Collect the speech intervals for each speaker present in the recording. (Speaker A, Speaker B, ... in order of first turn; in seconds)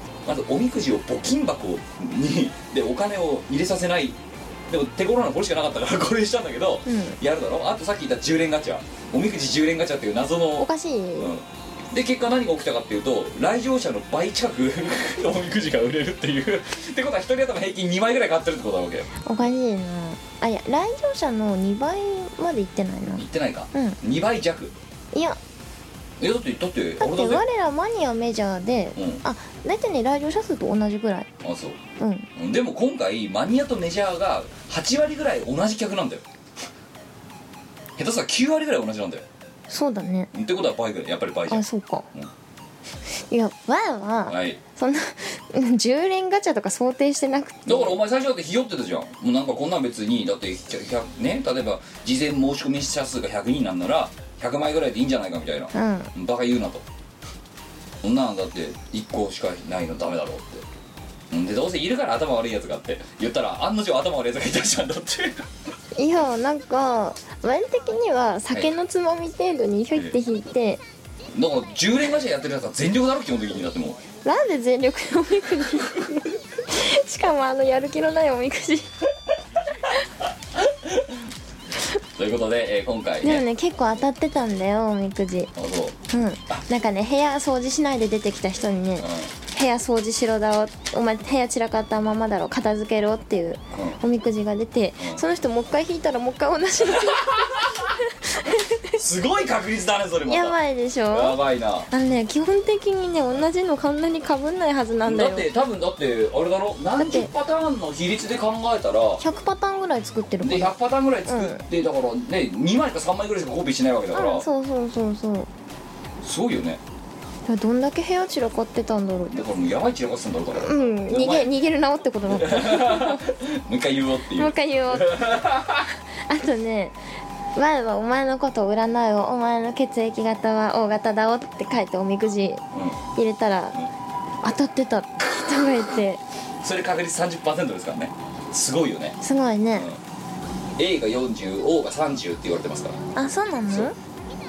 Speaker A: 0.2-4.2, 4.7-19.1, 23.2-24.7, 26.2-27.4, 29.0-29.2, 31.4-31.8, 32.4-36.2, 38.0-39.2, 40.3-42.3, 44.3-44.6, 47.7-56.8, 58.0-60.6, 61.3-65.5, 71.3-74.0, 80.6-81.2, 82.2-83.4, 85.5-86.0, 89.0-89.3, 93.7-94.0, 96.8-97.9, 99.0-100.6, 101.1-101.9, 105.0-109.2, 110.4-114.5, 116.2-116.8, 119.3-121.5, 122.3-125.9, 132.7-133.1, 136.6-139.2, 140.8-143.0
Speaker B: 6.9-7.2, 10.6-11.3, 19.3-24.0, 25.1-25.4, 27.0-31.3, 32.0-32.3, 39.7-40.3, 41.5-42.1, 43.2-48.0, 55.7-56.1, 66.0-70.8, 74.2-78.9, 83.2-85.5, 86.1-99.0, 100.3-101.4, 101.9-105.5, 107.0-107.3, 109.2-110.7, 111.3-111.6, 114.1-115.5, 117.5-119.4, 120.6-123.2, 124.4-125.2, 126.3-127.0, 127.6-132.6, 133.2-133.8, 134.4-136.2, 139.2-139.9, 143.2-143.9